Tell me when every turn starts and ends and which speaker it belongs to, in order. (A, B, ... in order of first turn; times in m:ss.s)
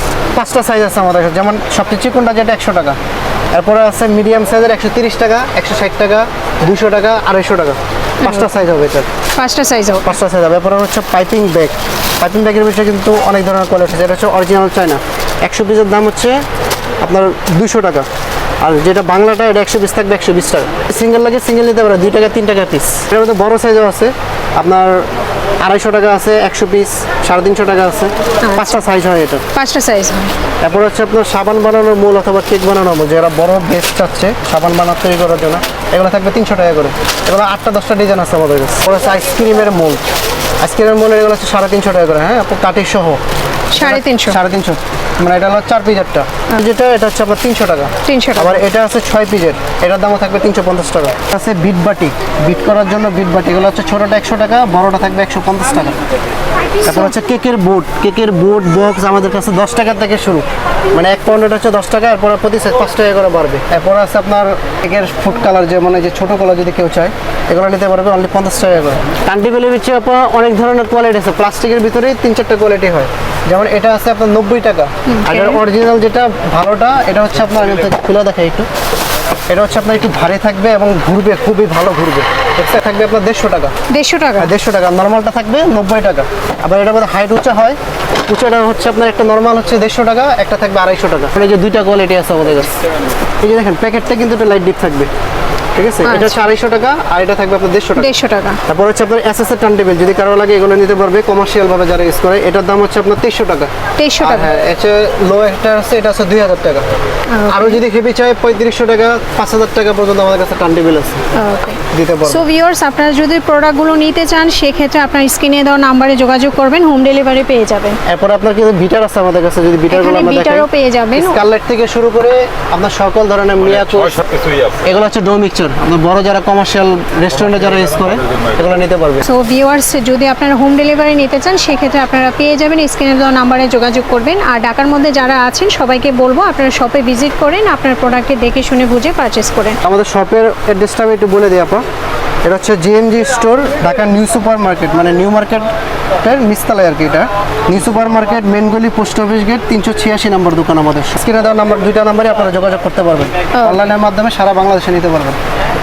0:00.3-0:03.0 A
0:03.5-0:09.1 A
0:08.2-0:08.5 B
0:09.4-0:10.2 B
0:10.0-0:16.4 A
0:17.0-0:18.1 A
0:18.6-0:25.0 A
0:25.6-0:29.4 A
0:28.4-0:28.8 B
0:29.5-0:30.3 B
0:30.6-0:40.0 A
0:40.6-0:43.2 A
0:43.7-0:44.4 B
0:43.8-0:56.0 A
0:48.0-0:48.6 B
0:56.8-0:57.1 B
0:56.8-1:18.7 A
1:15.1-1:15.6 B
1:19.5-1:23.7 A
1:23.9-1:24.5 B
1:24.4-1:32.7 A
1:33.4-1:35.1 A
1:35.7-1:38.1 A
1:36.0-1:36.4 B
1:38.0-1:38.6 B
1:38.7-1:46.9 A
1:44.0-1:44.5 B
1:47.3-1:47.8 B
1:47.5-1:51.2 A
1:51.3-1:58.0 B
1:51.9-1:52.4 A
1:58.0-2:09.3 A
1:59.9-2:01.4 B
2:09.2-2:19.8 B
2:19.8-2:21.8 A
2:22.4-2:25.7 A
2:26.2-2:35.4 A
2:33.5-2:33.8 B